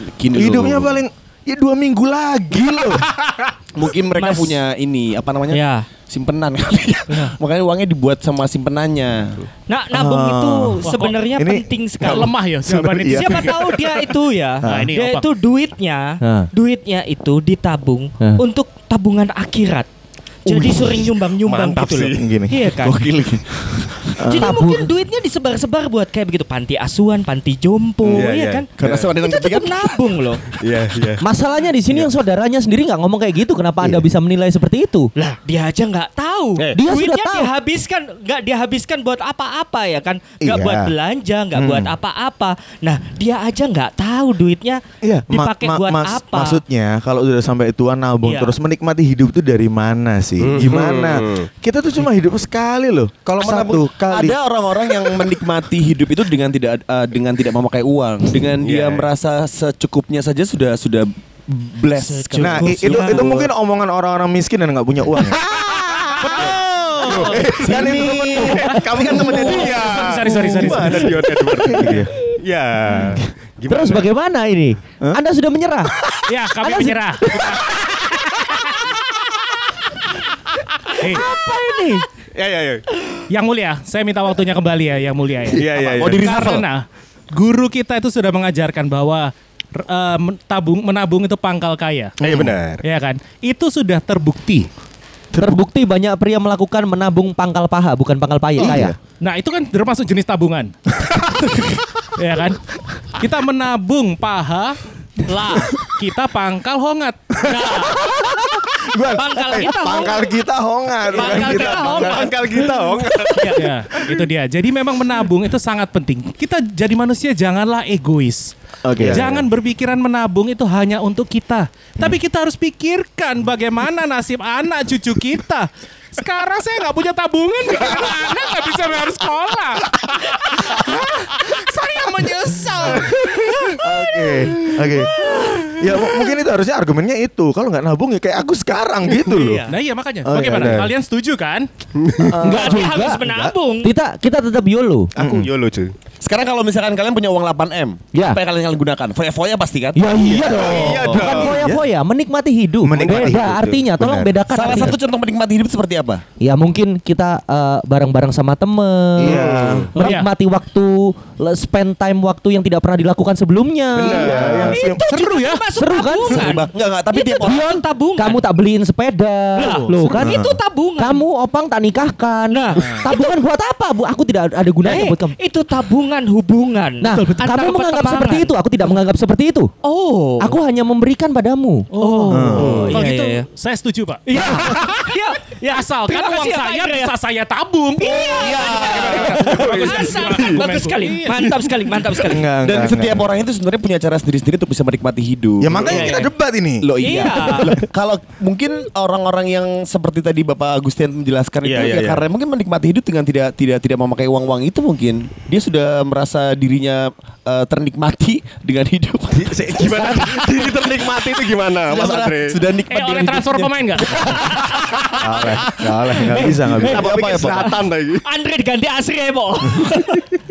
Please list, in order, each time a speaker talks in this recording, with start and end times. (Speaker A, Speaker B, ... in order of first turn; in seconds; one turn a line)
Speaker A: 0.2-1.0
Speaker B: 0.3-3.0
Speaker A: 3.7-9.3
Speaker C: 4.2-4.6
Speaker C: 5.5-5.8
Speaker C: 9.7-12.3
Speaker B: 9.9-10.8
Speaker D: 10.8-11.1
Speaker B: 11.3-13.5
Speaker D: 12.0-13.5
Speaker C: 13.1-19.9
Speaker D: 14.6-15.3
Speaker B: 14.6-14.9
Speaker E: 16.2-16.5
Speaker B: 20.4-21.0
Speaker C: 20.4-23.0
Speaker F: 21.4-22.3
Speaker B: 22.1-22.6
Speaker A: 22.8-24.2
Speaker B: 24.2-24.6
Speaker E: 24.3-24.9
Speaker C: 24.3-28.6
Speaker F: 28.1-29.1
Speaker A: 28.2-30.2
Speaker C: 29.2-30.4
Speaker F: 30.6-31.2
Speaker E: 31.2-35.1
Speaker C: 35.1-46.6
Speaker E: 36.7-37.5
Speaker B: 40.4-40.9
Speaker B: 41.5-41.9
Speaker B: 45.0-54.4
Speaker C: 48.2-48.5
Speaker F: 50.4-51.5
Speaker A: 53.4-63.5
Speaker F: 58.6-59.1
Speaker C: 62.0-63.3
Speaker B: 62.4-65.4
Speaker E: 65.2-69.5
Speaker D: 66.2-66.6
Speaker F: 67.0-67.5
Speaker B: 67.1-69.6
Speaker A: 67.5-69.9
Speaker F: 68.3-74.1
Speaker D: 69.8-71.1
Speaker B: 70.6-72.1
Speaker E: 73.7-75.9
Speaker D: 76.3-77.8
Speaker E: 76.6-77.7
Speaker D: 81.0-81.2
Speaker E: 81.0-82.0
Speaker F: 82.3-82.8
Speaker D: 83.3-92.1
Speaker F: 85.5-86.2
Speaker A: 85.7-86.6
Speaker F: 92.2-92.8
Speaker B: 92.2-92.5
Speaker D: 92.8-94.7
Speaker B: 95.3-95.6
Speaker E: 95.4-98.9
Speaker B: 98.6-99.0
Speaker D: 99.2-100.7
Speaker B: 101.0-101.7
Speaker D: 102.1-102.6
Speaker D: 103.2-107.5
Speaker C: 105.3-105.6
Speaker C: 107.4-108.1
Speaker B: 108.0-112.3
Speaker C: 109.1-110.3
Speaker C: 111.1-112.4
Speaker D: 111.2-111.8
Speaker F: 111.3-113.5
Speaker C: 113.3-113.7
Speaker D: 113.5-118.5
Speaker B: 118.8-119.4
Speaker F: 119.0-119.3
Speaker D: 119.0-133.8
Speaker B: 133.7-139.6
Speaker C: 134.3-135.8
Speaker C: 139.1-139.7
Speaker D: 139.7-141.7
Speaker B: 140.2-140.9
Speaker F: 140.4-140.9
Speaker F: 141.9-142.3
Speaker B: 142.2-143.5
Speaker E: 142.3-143.2
Speaker C: 142.4-143.9
Speaker E: 143.8-145.1
Speaker F: 145.2-145.9
Speaker B: 145.2-145.5
Speaker A: 146.2-150.2
Speaker E: 148.1-148.4
Speaker E: 149.9-155.0
Speaker B: 150.2-151.8
Speaker F: 150.3-151.6
Speaker A: 151.0-151.3
Speaker B: 152.8-154.1
Speaker F: 152.9-154.3
Speaker A: 154.5-156.2
Speaker E: 156.4-164.6
Speaker B: 159.2-159.9
Speaker F: 159.2-159.9
Speaker D: 160.0-160.3
Speaker F: 164.0-164.8
Speaker C: 164.0-168.4
Speaker B: 164.0-165.0
Speaker D: 165.1-165.6
Speaker E: 165.8-166.4
Speaker A: 166.3-167.7
Speaker E: 167.4-170.4
Speaker D: 169.6-170.2
Speaker C: 169.6-171.2
Speaker B: 170.2-170.6
Speaker E: 171.0-175.3
Speaker C: 172.5-173.3
Speaker C: 174.8-178.5
Speaker E: 177.0-179.7
Speaker D: 177.1-177.4
Speaker C: 179.8-180.5
Speaker E: 180.4-181.9
Speaker D: 181.9-185.1
Speaker C: 182.0-183.4
Speaker B: 182.3-182.9
Speaker E: 182.5-182.8
Speaker C: 184.2-187.1
Speaker E: 184.3-184.7
Speaker D: 185.7-191.7
Speaker C: 188.0-192.5
Speaker A: 188.1-189.5
Speaker F: 189.1-190.6
Speaker B: 192.2-193.3
Speaker A: 192.6-196.1
Speaker B: 195.6-196.8
Speaker C: 195.8-196.3
Speaker A: 196.8-211.2
Speaker C: 197.0-197.7
Speaker F: 201.6-202.2
Speaker F: 209.4-212.6
Speaker E: 209.9-210.3
Speaker A: 211.9-214.5
Speaker D: 212.9-214.3
Speaker C: 214.4-215.2
Speaker B: 215.2-217.1
Speaker C: 216.3-216.9
Speaker A: 216.5-217.8
Speaker F: 216.8-218.2
Speaker C: 218.2-220.2